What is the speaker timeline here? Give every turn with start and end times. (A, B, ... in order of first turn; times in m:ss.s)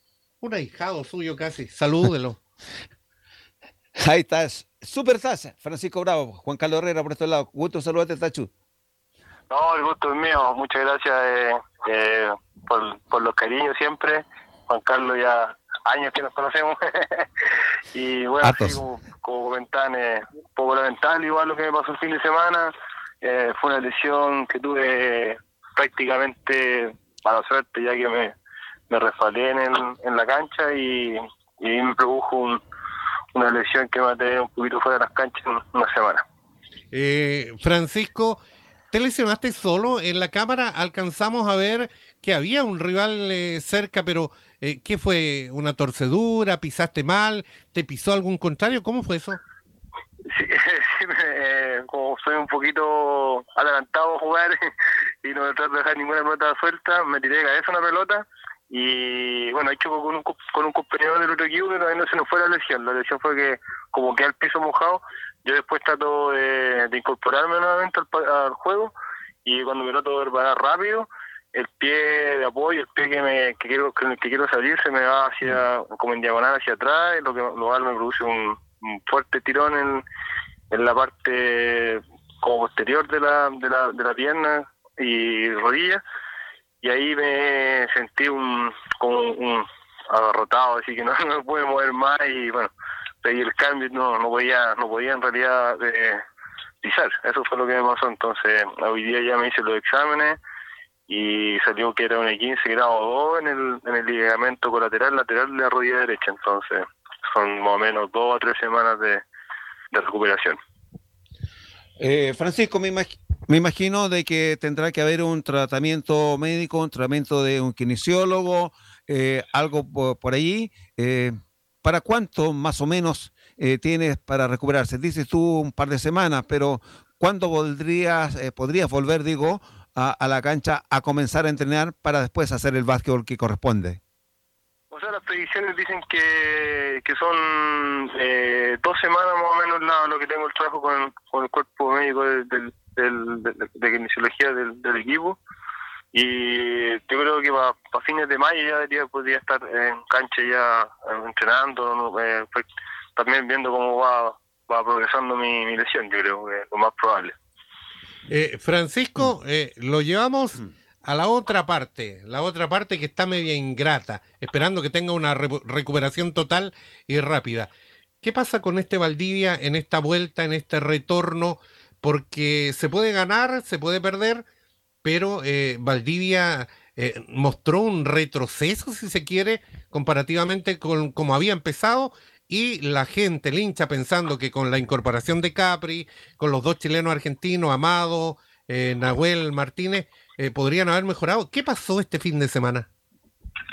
0:00.4-0:02.4 A
0:04.0-0:08.5 B
0:09.5-0:28.3 C
0:18.4-0:18.8 B
0:28.9-0:32.6 C
0:33.3-0:36.2 C
0:36.9-0:38.4 A
0:38.9-0:49.4 A
0:50.3-0:54.6 C
0:55.2-1:08.9 C
1:09.4-1:20.0 C
1:20.7-1:26.0 C
1:26.8-1:32.7 C
1:33.2-1:36.2 C
1:36.8-1:40.4 C
1:41.1-1:49.2 C
1:49.9-1:50.6 C
1:52.0-2:14.0 B
2:14.9-2:25.4 C
2:26.1-2:37.3 C
2:38.3-2:47.7 A
2:48.2-2:54.4 A
2:55.0-3:12.9 A